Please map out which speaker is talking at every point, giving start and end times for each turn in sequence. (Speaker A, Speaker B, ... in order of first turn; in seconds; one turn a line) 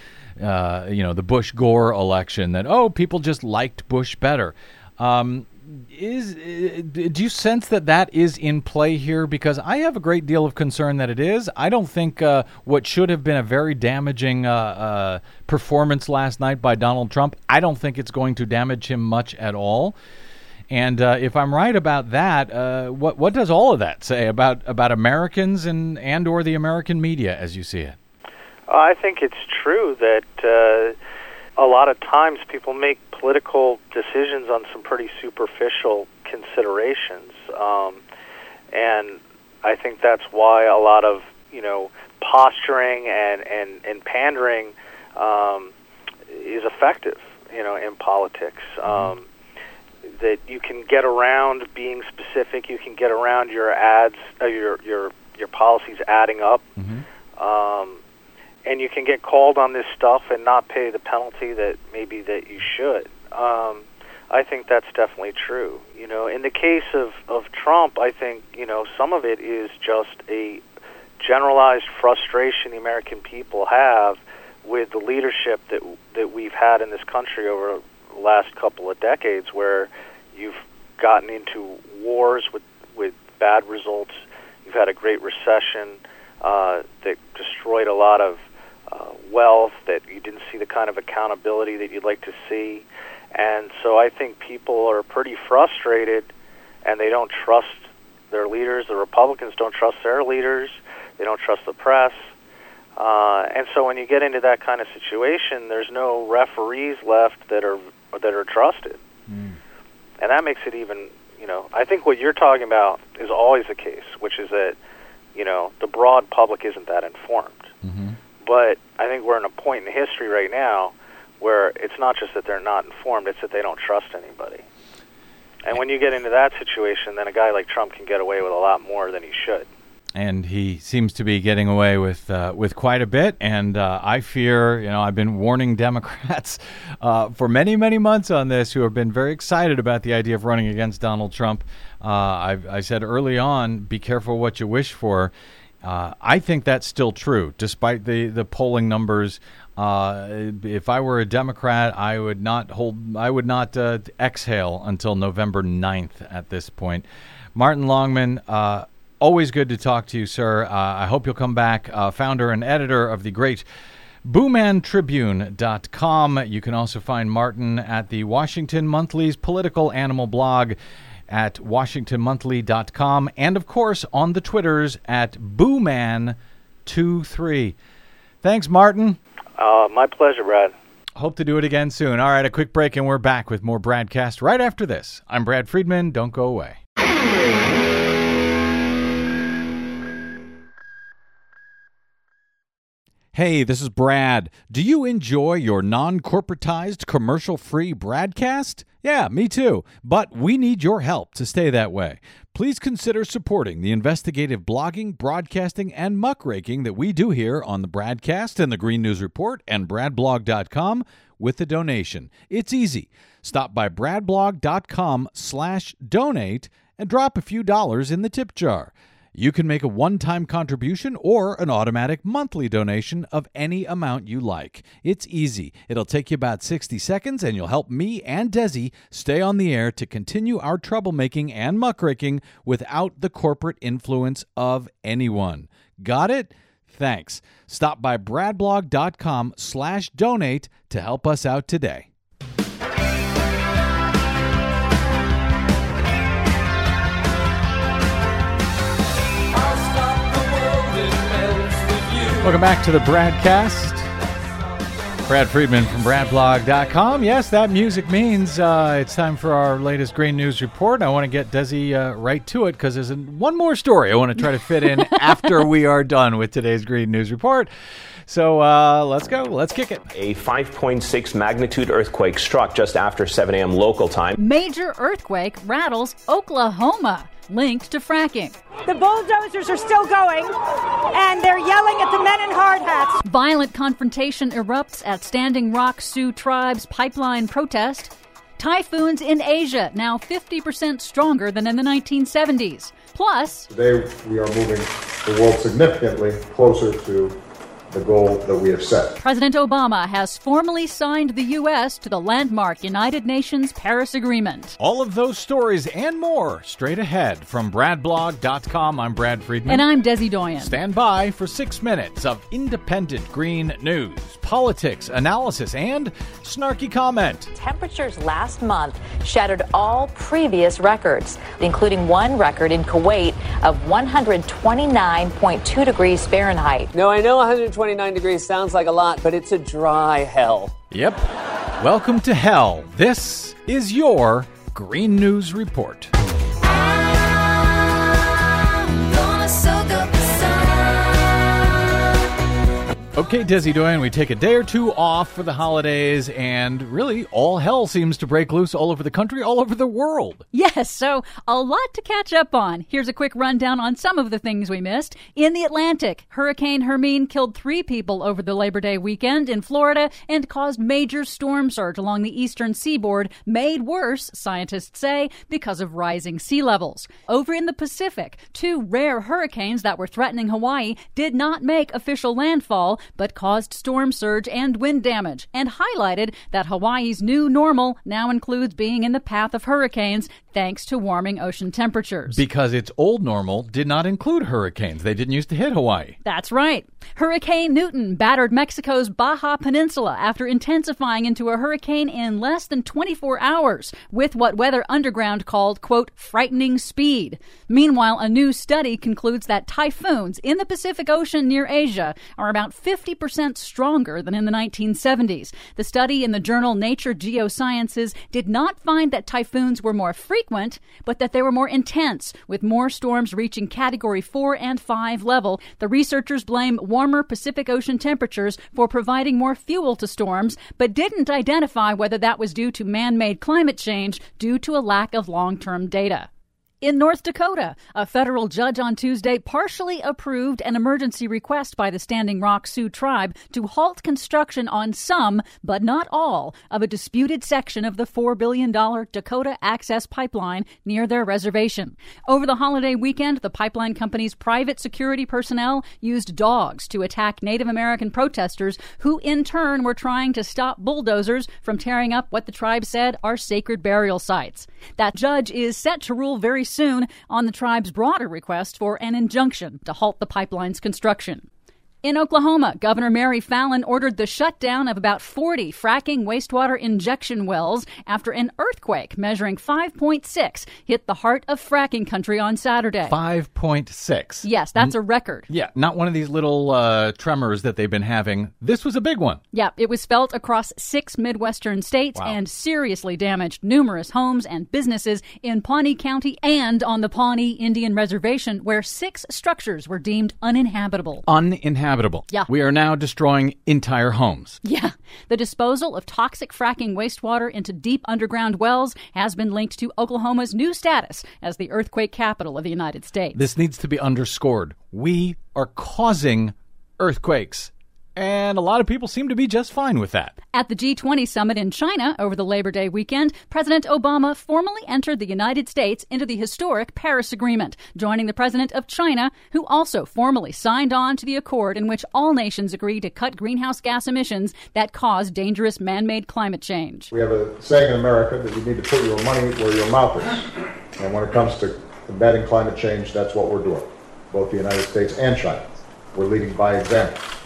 Speaker A: 0.4-19.9
Speaker A: 20.7-28.0
Speaker B: 28.7-31.0
Speaker B: 31.6-38.0
Speaker B: 38.7-45.7
Speaker B: 46.3-49.2
Speaker A: 48.8-49.1
Speaker B: 50.1-56.6
Speaker A: 56.8-57.0
Speaker B: 57.4-58.0
Speaker B: 58.6-70.6
Speaker B: 71.2-96.3
Speaker B: 96.8-102.3
Speaker B: 103.0-109.0
Speaker A: 109.3-109.6
Speaker B: 110.2-114.8
Speaker B: 115.3-117.7
Speaker A: 117.8-118.2
Speaker B: 118.4-124.6
Speaker B: 125.7-129.7
Speaker A: 130.1-145.3
Speaker A: 145.8-163.6
Speaker A: 164.2-170.8
Speaker A: 171.3-177.8
Speaker A: 178.4-179.2
Speaker B: 179.6-180.7
Speaker A: 181.2-186.8
Speaker A: 193.3-242.1
Speaker A: 252.4-254.1
Speaker A: 255.2-267.7
Speaker A: 268.3-270.0
Speaker C: 270.1-274.4
Speaker D: 274.4-278.6
Speaker E: 278.8-280.5
Speaker E: 281.1-283.2
Speaker D: 283.2-293.7
Speaker F: 293.7-297.4
Speaker F: 297.9-299.2
Speaker D: 299.2-304.8
Speaker A: 304.8-309.9
Speaker D: 309.6-310.8
Speaker A: 310.6-317.5
Speaker G: 317.5-326.9
Speaker H: 326.9-330.7
Speaker A: 330.9-331.3
Speaker A: 331.8-336.1
Speaker D: 339.6-340.3
Speaker A: 343.1-350.4
Speaker D: 350.5-382.4
Speaker A: 382.3-386.2
Speaker D: 386.2-426.3
Speaker D: 426.8-461.4
Speaker D: 462.0-473.1
Speaker A: 473.1-474.9
Speaker D: 474.4-475.5
Speaker A: 475.5-479.4
Speaker D: 479.5-491.2
Speaker A: 491.3-494.6
Speaker D: 494.6-503.4
Speaker A: 503.3-510.3
Speaker D: 510.5-527.1
Speaker F: 527.1-530.5
Speaker F: 531.0-537.2